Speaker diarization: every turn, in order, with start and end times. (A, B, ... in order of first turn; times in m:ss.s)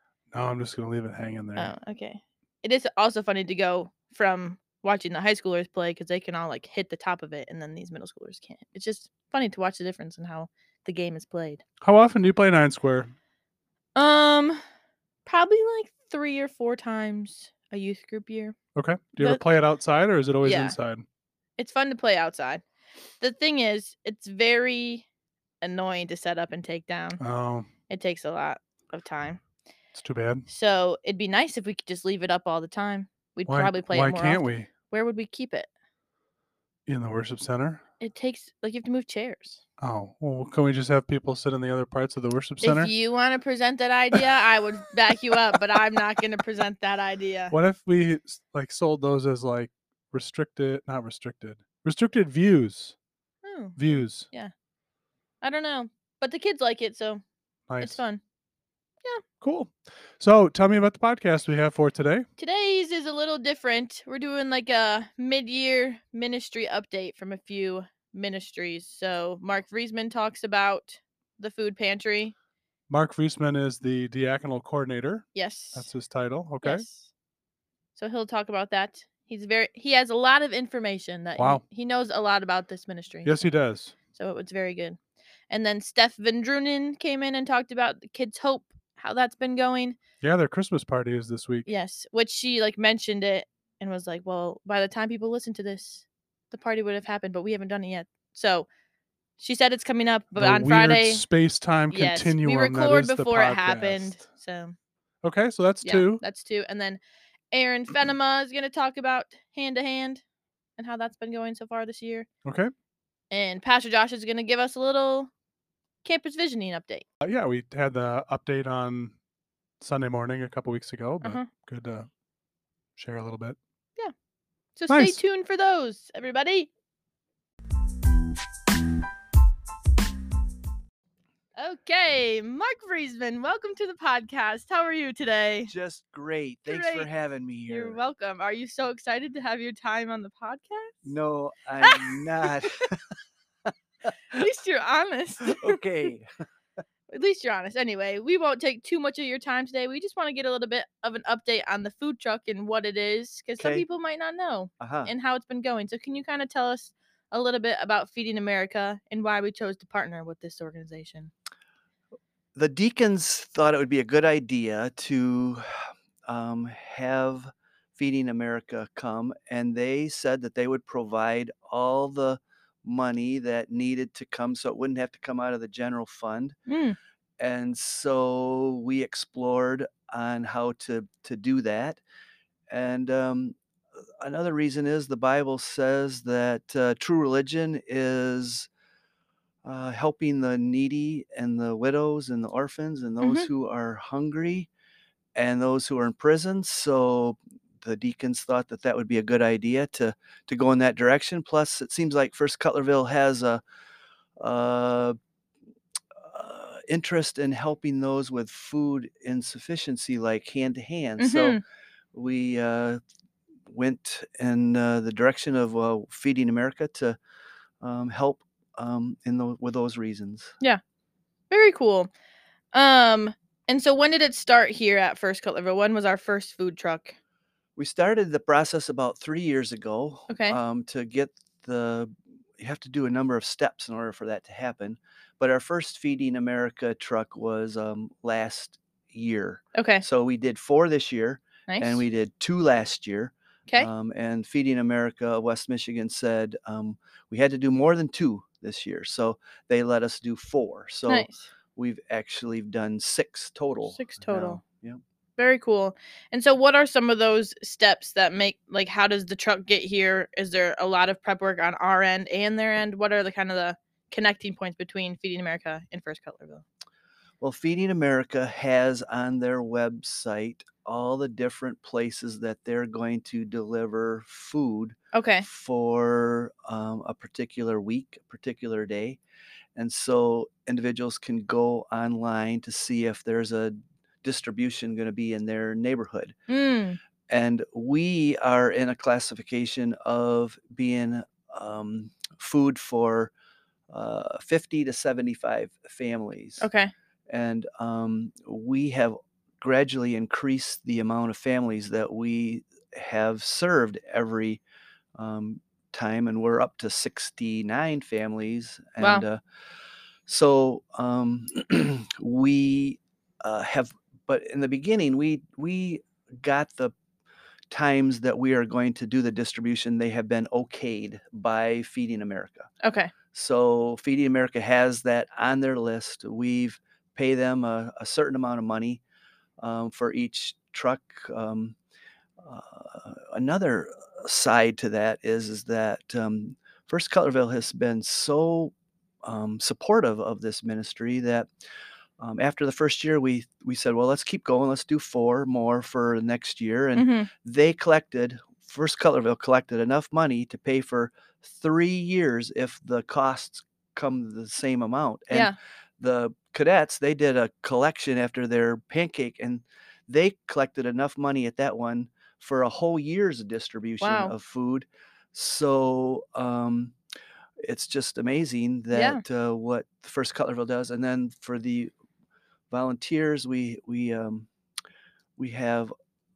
0:00.3-0:01.7 A
0:01.6-0:11.6 B
0:11.8-0:13.1 A
0:14.0-0:14.6 B
0:15.3-0:18.6 B
0:18.8-0:21.0 A
0:20.4-0:20.8 B
0:21.6-0:22.6 B
0:23.2-0:25.0 B
0:25.6-0:27.2 B
0:27.2-0:27.7 A
0:27.9-0:29.4 B
0:30.0-0:30.5 A
0:30.5-0:35.7 B
0:33.5-0:34.7 A
0:36.9-0:37.8 A
0:38.0-0:39.6 B
0:39.8-0:42.9 A
0:42.6-0:47.5 B
0:47.5-0:53.0 A
0:53.4-0:54.5 B
0:53.8-0:54.3 A
0:55.4-0:57.2 B
0:57.7-0:58.0 A
0:57.8-0:58.2 B
0:59.4-1:02.3 A
1:02.4-1:12.4 B
1:12.9-1:16.8 A
1:15.4-1:15.9 B
1:16.6-1:17.1 B
1:18.0-1:23.4 B
1:21.4-1:21.6 A
1:23.2-1:23.9 A
1:24.1-1:25.0 B
1:25.5-1:30.0 B
1:30.2-1:31.7 A
1:31.7-1:38.7 B
1:39.4-1:41.2 B
1:40.4-1:44.2 A
1:41.9-1:44.8 B
1:45.2-1:46.2 A
1:45.8-1:47.0 B
1:47.5-1:50.2 B
1:50.8-1:52.3 B
1:52.4-1:52.7 A
1:53.3-1:55.3 B
1:56.0-1:57.1 B
1:57.2-1:59.2 A
1:59.8-2:02.1 A
2:01.2-2:01.5 B
2:03.0-2:03.6 A
2:04.8-2:06.7 B
2:04.9-2:05.2 A
2:11.6-2:15.7 B
2:15.7-2:18.0 C
2:16.7-2:17.1 B
2:17.7-2:21.1 B
2:21.0-2:23.0 C
2:21.8-2:22.8 B
2:24.3-2:25.8 B
2:25.4-2:26.3 C
2:27.1-2:41.3 B
2:33.6-2:33.9 C
2:34.8-2:35.1 C
2:42.6-2:56.6 C
2:56.7-2:57.0 B
2:57.4-3:02.0 C
3:02.7-3:03.6 C
3:04.2-3:08.7 C
3:09.6-3:14.7 C
3:13.2-3:13.5 B
3:15.4-3:23.6 C
3:24.4-3:25.2 C
3:26.2-3:31.6 C
3:31.2-3:31.6 B
3:32.1-3:33.0 C
3:33.7-3:37.2 C
3:37.8-3:40.5 C
3:41.5-3:42.1 B
3:42.7-3:47.2 B
3:47.8-4:15.0 C
3:50.3-3:50.6 B
3:59.8-4:00.0 B
4:01.7-4:02.0 B
4:11.1-4:11.5 B
4:13.8-4:14.6 B
4:15.4-4:26.6 B
4:27.4-4:39.2 C
4:35.1-4:35.5 B
4:39.8-4:46.4 C
4:46.5-4:47.0 B
4:47.3-4:53.3 C
4:53.9-4:56.7 C
4:56.6-4:56.9 B
4:57.3-5:04.6 C
5:05.2-5:09.4 C
5:09.0-5:09.2 B
5:10.3-5:17.0 C
5:17.7-5:22.7 C
5:22.8-5:23.1 B
5:23.3-5:29.0 C
5:29.6-5:31.8 C
5:32.4-5:38.7 C
5:39.2-5:41.5 C
5:42.2-6:07.0 C
5:47.0-5:47.3 B
6:04.0-6:04.3 B
6:07.6-6:11.9 C
6:08.9-6:09.2 B
6:12.7-6:14.5 C
6:15.4-6:15.9 C